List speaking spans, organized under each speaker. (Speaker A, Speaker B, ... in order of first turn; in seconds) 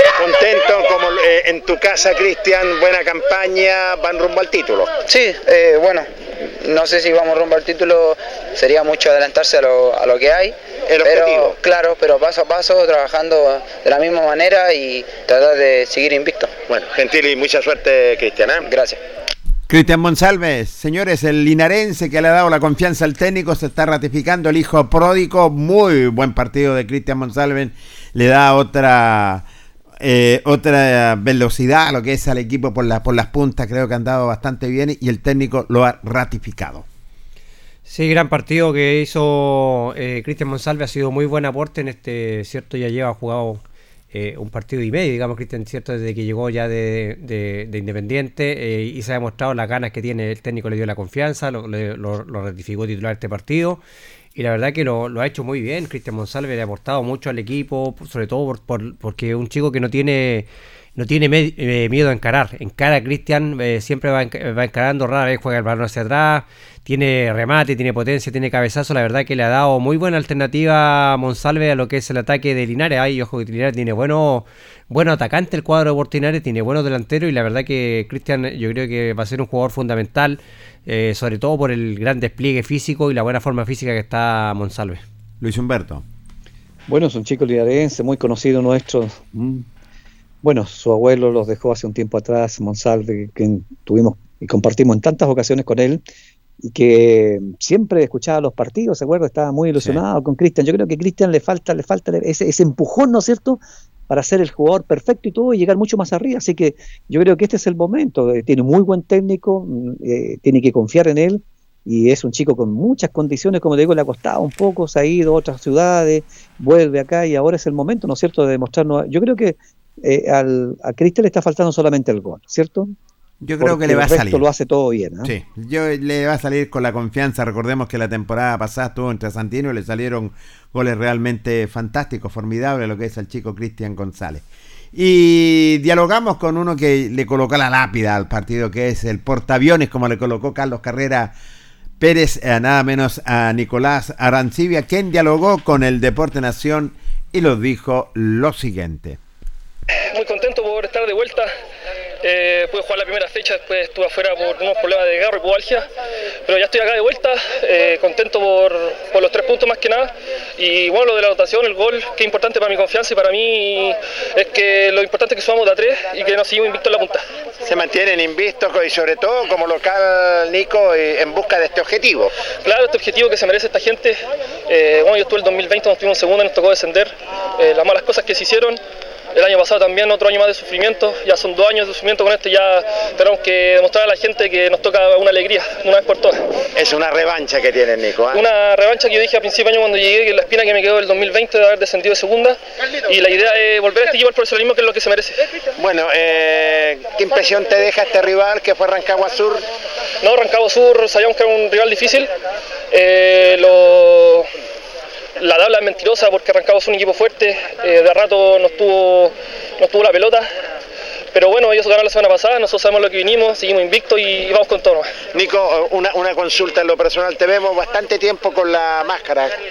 Speaker A: 0.2-4.9, 10.9-11.6, 16.7-18.7, 167.6-172.3, 186.8-188.4, 195.8-199.7, 215.3-219.6
Speaker B: 5.1-16.5, 18.6-19.0
Speaker C: 19.7-29.5, 30.0-36.9, 85.4-86.0, 99.8-100.0, 123.4-124.5, 125.2-141.3, 142.0-149.2
Speaker D: 37.9-43.6, 44.1-53.8, 54.4-85.0
Speaker E: 86.9-89.7, 90.4-96.0, 96.6-123.0, 123.6-125.3
Speaker F: 150.1-151.5, 152.2-155.8, 156.5-167.2, 172.6-174.2, 174.7-178.8, 179.3-186.4, 188.3-195.4, 200.2-202.3, 202.9-204.5, 205.4-210.5, 211.3-215.1